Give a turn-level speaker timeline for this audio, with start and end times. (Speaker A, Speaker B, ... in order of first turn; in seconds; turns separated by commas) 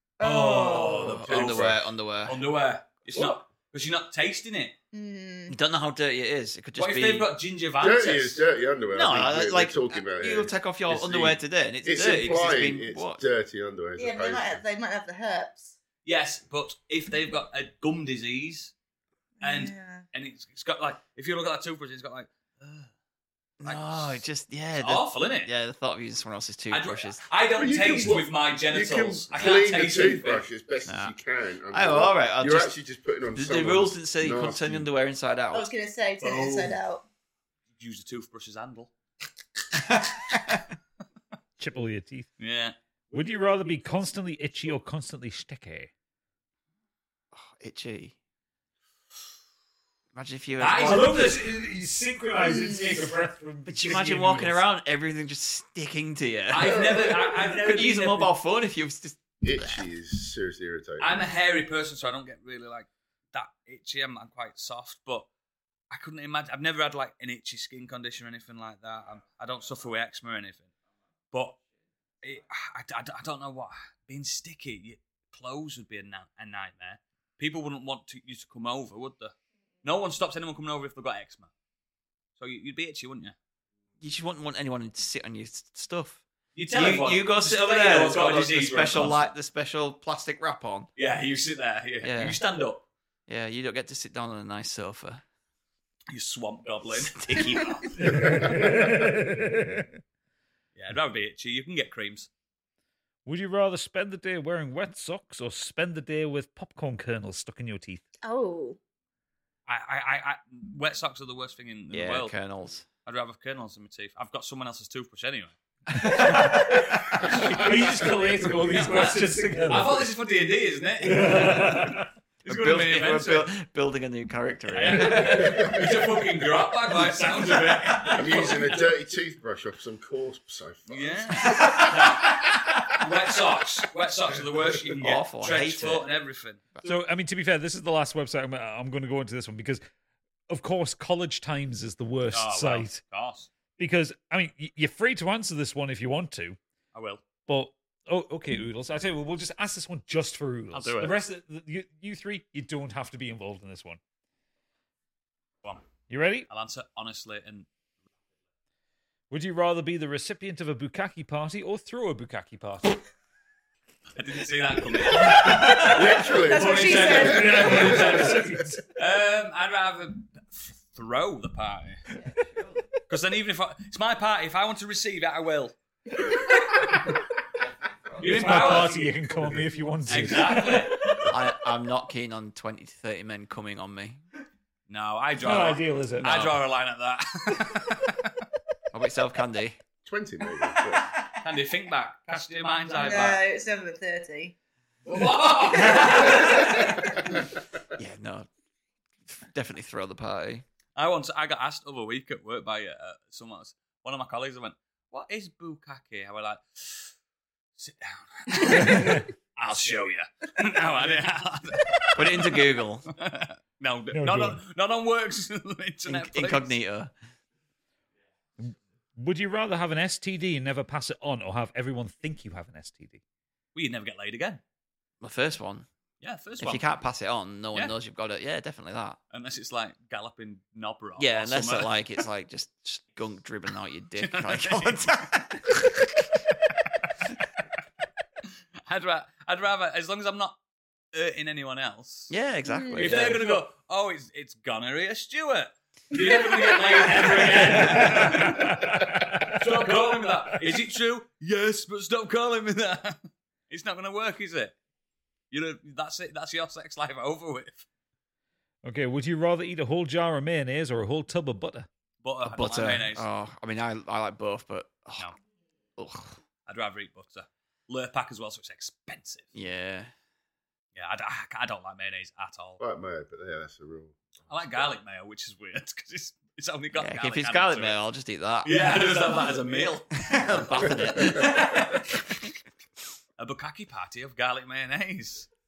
Speaker A: 0.2-4.7, Speaker B: 0.2-2.4, Speaker C: 0.2-1.7, Speaker C: 3.1-3.4, Speaker D: 4.9-5.5, Speaker B: 5.5-7.3, Speaker A: 6.8-8.4, Speaker C: 7.8-14.6, Speaker B: 8.9-13.2, Speaker D: 13.9-15.8, Speaker A: 16.0-18.7, Speaker D: 19.4-20.0, Speaker A: 19.4-22.9, Speaker B: 23.6-27.2, Speaker A: 23.6-24.2, Speaker A: 24.8-25.5, Speaker A: 26.7-30.4, Speaker C: 27.5-34.9, Speaker B: 30.9-31.1, Speaker B: 31.7-32.7, Speaker B: 33.3-35.7, Speaker D: 35.5-37.0, Speaker A: 36.2-36.8, Speaker A: 37.8-38.9, Speaker A: 40.1-40.5, Speaker E: 41.6-42.3, Speaker A: 42.4-42.8, Speaker E: 43.1-45.9, Speaker B: 47.3-48.1, Speaker B: 50.1-51.3, Speaker A: 50.6-51.4, Speaker E: 50.8-54.6, Speaker B: 53.7-59.9, Speaker A: 56.5-58.3, Speaker C: 56.6-57.4, Speaker C: 59.4-61.2, Speaker A: 61.0-65.3, Speaker A: 65.9-70.7, Speaker A: 71.3-71.6, Speaker A: 72.2-81.5, Speaker A: 82.4-83.3, Speaker B: 84.0-90.9, Speaker A: 86.5-89.2, Speaker A: 91.0-92.8, Speaker B: 92.0-92.4, Speaker B: 93.3-95.2, Speaker A: 96.1-98.3, Speaker B: 96.9-98.2, Speaker E: 98.0-100.0, Speaker C: 98.4-98.7, Speaker A: 100.8-102.3, Speaker E: 103.2-108.0, Speaker D: 108.2-108.8, Speaker A: 109.7-112.3, Speaker B: 111.9-112.8, Speaker A: 113.0-117.9, Speaker E: 115.9-120.1, Speaker A: 118.7-123.5, Speaker E: 121.0-122.1, Speaker B: 122.5-125.7, Speaker A: 124.7-128.8, Speaker C: 125.4-125.8, Speaker C: 128.1-132.2, Speaker A: 130.9-136.7, Speaker B: 134.9-136.1, Speaker E: 136.8-139.8, Speaker E: 140.5-143.0, Speaker A: 142.3-143.5, Speaker E: 143.8-146.6, Speaker A: 146.9-147.2, Speaker E: 147.5-154.0, Speaker A: 150.7-151.2, Speaker E: 156.1-156.5, Speaker A: 156.5-157.7, Speaker E: 159.3-163.0, Speaker A: 164.1-172.0, Speaker E: 165.2-166.1, Speaker D: 165.7-168.0, Speaker C: 165.7-168.5, Speaker E: 167.2-168.8, Speaker A: 173.1-175.7, Speaker A: 176.3-176.8, Speaker A: 178.2-179.1, Speaker E: 178.2-181.2, Speaker A: 180.1-181.1, Speaker B: 181.2-184.2, Speaker A: 184.9-188.3, Speaker E: 185.4-186.6, Speaker B: 188.9-189.8, Speaker C: 190.0-191.1, Speaker A: 191.3-193.4, Speaker D: 193.0-194.5, Speaker A: 195.1-197.2, Speaker D: 195.9-196.2, Speaker B: 197.9-198.5, Speaker B: 199.3-200.6, Speaker A: 200.9-207.1, Speaker A: 207.8-216.8, Speaker E: 208.7-209.3, Speaker B: 212.1-213.1, Speaker E: 214.1-214.6, Speaker B: 216.1-217.1, Speaker E: 218.6-223.2, Speaker A: 223.7-224.6, Speaker B: 225.2-225.9, Speaker A: 226.2-226.9, Speaker B: 226.6-229.2, Speaker A: 229.3-232.0, Speaker B: 231.2-236.3, Speaker A: 234.2-235.1, Speaker A: 238.8-240.6, Speaker A: 241.1-242.3, Speaker B: 242.3-243.4, Speaker D: 242.7-243.2, Speaker A: 242.9-254.8, Speaker E: 247.7-249.7, Speaker A: 255.5-257.9, Speaker E: 258.8-261.9, Speaker A: 262.2-263.2, Speaker B: 262.4-265.3, Speaker B: 266.0-266.4, Speaker A: 266.7-269.5, Speaker B: 269.5-270.1, Speaker A: 270.9-272.8, Speaker C: 272.8-274.3, Speaker A: 274.5-278.0, Speaker B: 276.9-279.0, Speaker A: 278.6-282.2, Speaker B: 280.3-282.4, Speaker C: 280.9-281.2, Speaker A: 283.4-285.5